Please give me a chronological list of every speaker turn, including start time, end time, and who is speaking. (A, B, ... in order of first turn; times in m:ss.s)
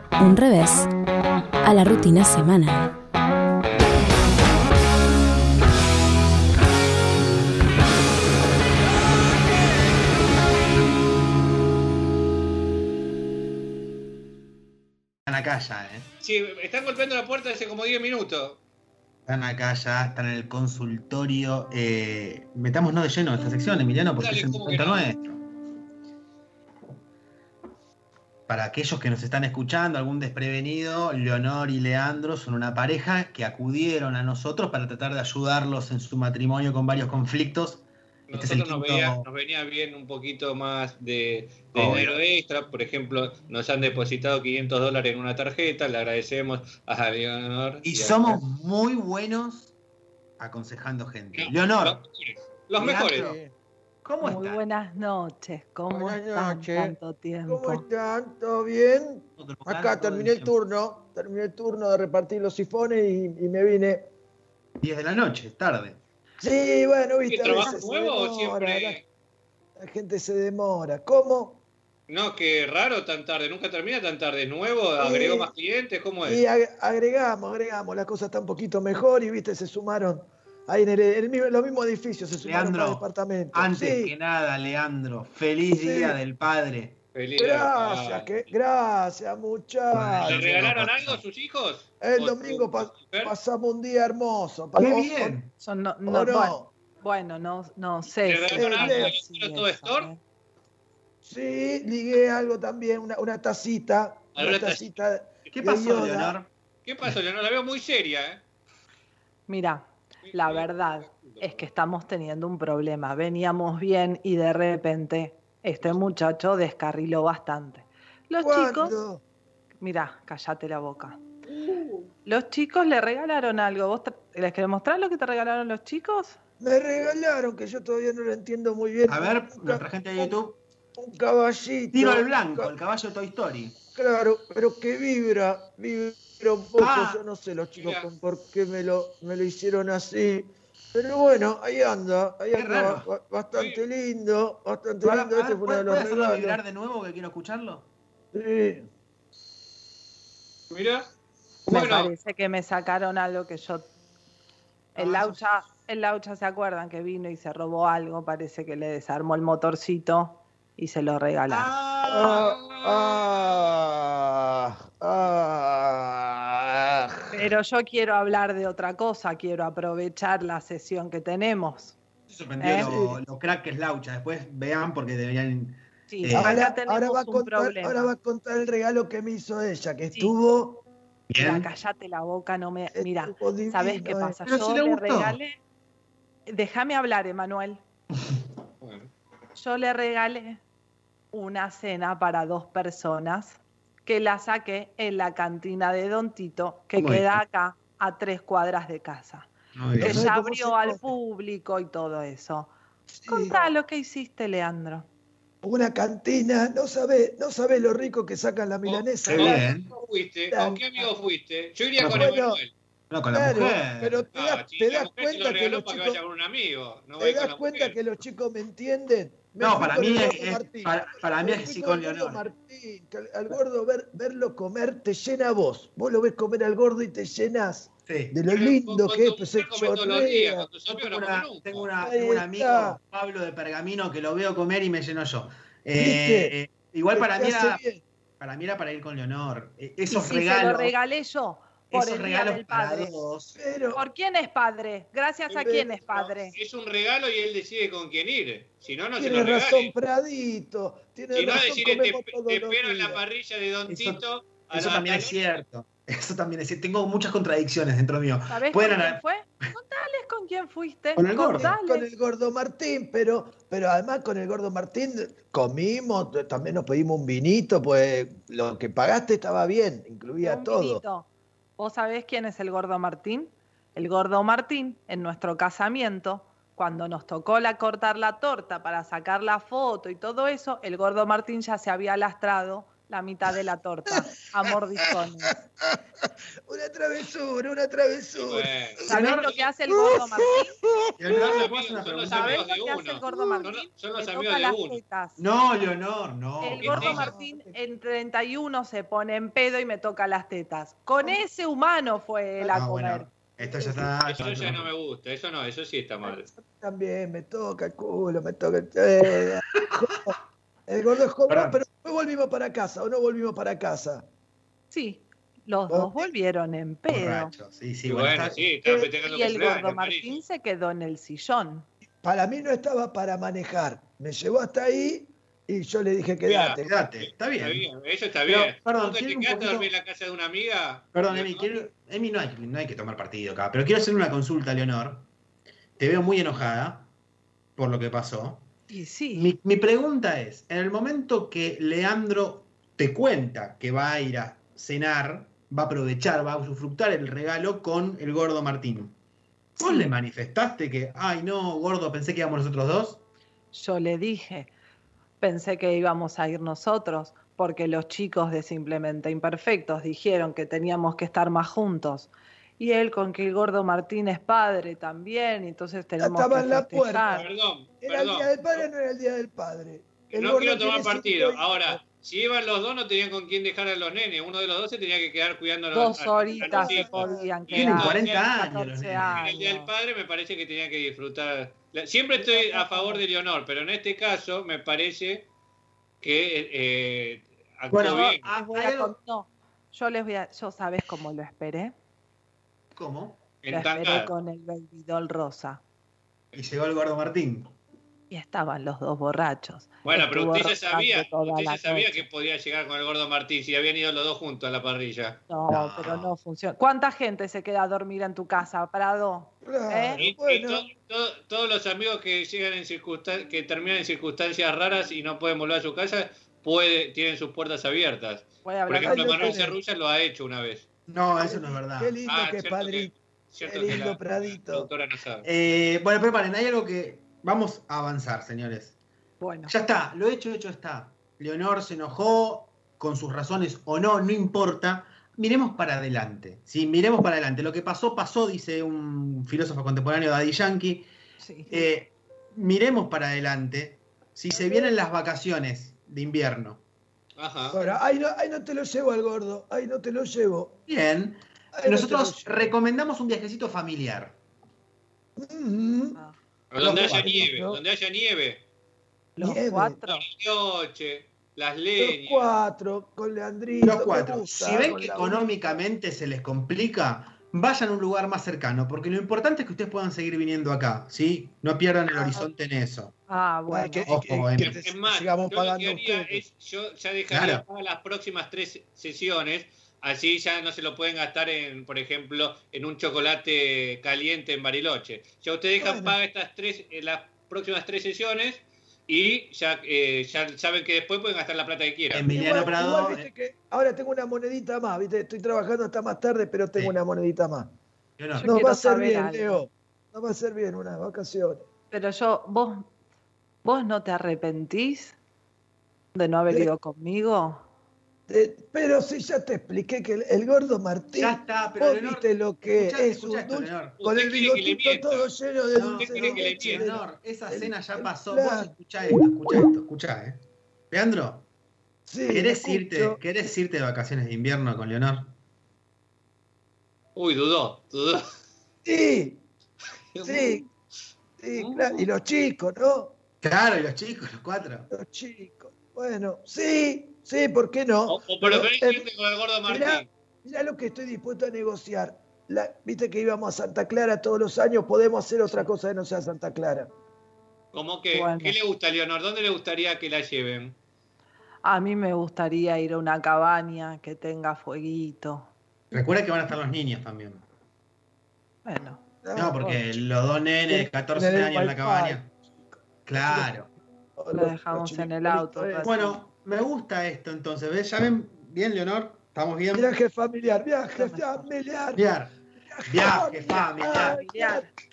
0:00.2-0:00.9 A
0:01.6-0:03.0 A
0:15.3-0:16.1 B
0:16.2-0:18.6 C
0:19.3-0:25.4 B
0:24.2-0:25.0 C
0:28.5-0:39.3 B
0:38.3-0:48.4 C
0:41.8-0:42.2 B
0:47.8-0:49.7 B
0:50.4-0:52.0 B
0:51.4-0:53.4 C
0:52.8-0:53.4 B
0:53.1-0:53.5 D
0:54.0-0:54.6 B
0:54.2-0:57.8 E
0:55.9-0:56.9 D
0:57.5-1:04.1 D
0:59.4-1:00.5 B
1:04.8-1:06.0 B
1:06.4-1:09.0 D
1:07.3-1:09.0 C
1:09.8-1:11.6 D
1:12.1-1:16.4 C
1:15.0-1:15.5 D
1:16.2-1:24.1 D
1:22.4-1:27.0 B
1:25.7-1:26.2 D
1:27.2-1:28.4 C
1:27.4-1:30.6 D
1:29.9-1:31.2 B
1:30.2-1:33.4 C
1:32.0-1:35.4 D
1:34.8-1:35.5 B
1:35.6-1:40.2 E
1:36.1-1:36.7 D
1:38.2-1:40.1 C
1:38.6-1:39.2 D
1:41.2-1:46.4 D
1:44.4-1:45.0 C
1:45.5-1:46.5 B
1:46.8-1:48.4 C
1:49.5-1:58.9 E
1:50.2-1:51.6 C
1:58.4-1:59.2 D
1:59.8-2:01.2 E
2:01.5-2:02.1 D
2:02.2-2:06.4 E
2:06.6-2:10.4 D
2:09.1-2:10.6 B
2:11.0-2:12.7 D
2:11.9-2:13.8 B
2:14.0-2:26.6 D
2:16.8-2:17.2 B
2:17.8-2:18.1 C
2:22.5-2:23.1 B
2:23.6-2:23.8 C
2:25.0-2:27.9 B
2:28.3-2:28.9 D
2:30.7-2:31.0 C
2:31.7-2:33.9 E
2:31.7-2:32.1 C
2:35.0-2:41.7 E
2:35.0-2:35.3 B
2:41.5-2:42.5 B
2:42.1-2:47.5 D
2:42.1-2:43.1 C
2:47.3-2:52.0 E
2:52.3-2:56.6 B
2:52.6-2:52.9 E
2:52.6-2:53.2 D
2:56.1-2:58.1 E
2:56.3-3:00.8 D
3:01.3-3:01.7 B
3:01.4-3:05.6 E
3:02.9-3:04.4 D
3:04.4-3:05.4 B
3:06.5-3:07.8 E
3:08.8-3:09.1 C
3:09.6-3:10.6 E
3:11.3-3:22.7 E
3:17.0-3:17.4 B
3:19.8-3:20.3 B
3:20.0-3:21.1 D
3:23.1-3:23.6 D
3:23.3-3:25.1 E
3:25.6-3:29.8 D
3:28.8-3:32.7 C
3:29.3-3:29.9 B
3:30.5-3:31.0 D
3:32.0-3:32.6 D
3:32.0-3:32.3 B
3:33.1-3:34.3 B
3:33.3-3:36.2 D
3:34.3-3:38.0 C
3:37.2-3:50.7 D
3:39.6-3:42.4 B
3:48.1-3:48.4 B
3:48.5-3:51.9 C
3:50.9-3:57.8 B
3:52.0-3:53.0 D
3:56.0-3:56.6 D
3:57.1-3:58.0 D
3:58.4-4:00.9 B
4:00.1-4:03.2 E
4:01.9-4:03.6 B
4:03.6-4:04.0 D
4:03.9-4:06.6 E
4:05.5-4:10.0 C
4:05.6-4:06.0 D
4:09.2-4:13.2 D
4:11.3-4:15.4 C
4:13.9-4:19.7 B
4:18.5-4:22.1 E
4:21.2-4:21.8 B
4:21.6-4:31.0 D
4:30.4-4:45.6 E
4:44.1-4:46.0 D
4:46.7-4:49.2 D
4:48.4-4:49.6 C
4:49.1-4:50.8 E
4:49.1-4:49.5 B
4:49.9-4:51.6 D
4:51.2-4:52.7 B
4:51.4-4:55.0 C
4:52.3-4:55.4 E
4:55.4-4:57.3 B
4:56.6-5:03.3 E
4:56.8-4:57.3 C
4:57.0-4:57.8 D
5:02.7-5:04.9 B
5:03.6-5:04.1 D
5:04.3-5:06.5 C
5:06.2-5:10.4 D
5:10.9-5:14.2 D
5:11.5-5:11.8 B
5:14.9-5:17.5 E
5:15.9-5:16.3 D
5:17.1-5:18.6 B
5:18.1-5:20.4 C
5:19.2-5:21.9 E
5:22.2-5:27.0 D
5:26.4-5:31.7 C
5:26.8-5:27.9 B
5:28.4-5:29.9 B
5:31.1-5:35.3 B
5:36.0-5:37.1 B
5:37.8-5:38.7 B
5:38.9-5:39.5 E
5:39.3-5:49.2 B
5:49.8-5:53.2 B
5:49.8-5:50.1 E
5:53.7-5:54.7 E
5:55.4-6:07.5 E
6:06.2-6:07.5 D
6:07.3-6:08.9 C
6:08.0-6:12.0 D
6:10.3-6:18.5 C
6:15.9-6:19.9 E
6:16.5-6:17.6 D
6:17.7-6:19.4 B
6:19.3-6:25.5 C
6:22.5-6:23.2 E
6:26.2-6:28.4 C
6:27.9-6:29.1 B
6:28.5-6:31.9 E
6:33.0-6:33.4 B
6:33.6-6:34.3 C
6:33.7-6:35.8 E
6:36.6-6:37.7 B
6:38.3-6:42.3 E
6:40.0-6:45.4 C
6:45.5-6:50.2 E
6:45.7-6:46.3 B
6:49.6-6:50.9 D
6:50.2-7:00.9 C
6:58.6-6:59.6 E
6:59.0-6:59.8 D
7:01.1-7:02.2 B
7:01.4-7:04.9 D
7:02.2-7:05.5 C
7:05.4-7:09.0 B
7:09.4-7:09.8 E
7:09.7-7:21.1 B
7:21.4-7:21.9 E
7:21.7-7:26.8 B
7:24.5-7:25.0 D
7:27.4-7:27.8 C
7:27.7-7:30.8 D
7:30.9-7:34.4 B
7:31.7-7:32.8 D
7:35.4-7:36.2 D
7:36.7-7:38.6 C
7:36.8-7:37.4 B
7:37.2-7:37.8 D
7:39.4-7:40.2 E
7:39.4-7:40.0 D
7:40.1-7:42.5 C
7:42.0-7:45.8 D
7:43.8-7:53.1 B
7:53.3-7:54.2 E
7:53.7-7:56.4 D
7:54.1-7:54.8 B
7:54.6-8:12.3 C
7:57.3-7:57.6 B
8:05.8-8:06.2 D
8:12.1-8:13.3 B
8:12.3-8:17.7 D
8:18.2-8:18.5 B
8:18.4-8:19.6 E
8:18.4-8:21.6 D
8:21.9-8:22.9 E
8:23.6-8:25.2 E
8:26.1-8:27.6 E
8:28.3-8:39.7 D
8:31.2-8:34.0 B
8:34.0-8:36.9 C
8:35.7-8:40.4 B
8:40.9-8:41.5 B
8:42.1-8:43.2 D
8:42.3-8:45.3 B
8:47.2-8:48.2 C
8:48.8-8:49.4 D
8:50.1-8:50.7 C
8:50.2-8:50.7 D
8:51.4-8:53.2 D
8:51.6-8:52.1 C
8:53.4-8:54.9 B
8:54.9-8:59.1 D
8:58.1-9:00.1 C
8:59.7-9:06.9 D
9:07.7-9:10.8 C
9:08.1-9:08.6 E
9:11.6-9:15.5 E
9:15.9-9:17.4 B
9:18.6-9:19.0 E
9:19.2-9:19.7 D
9:19.4-9:22.3 B
9:20.7-9:22.2 D
9:23.1-9:23.7 B
9:23.3-9:23.5 D
9:24.2-9:25.9 D
9:24.3-9:26.2 E
9:25.8-9:29.9 B
9:29.7-9:32.0 D
9:31.0-9:31.5 E
9:32.0-9:32.3 B
9:32.6-9:34.7 D
9:32.9-9:34.2 B
9:33.6-9:34.7 E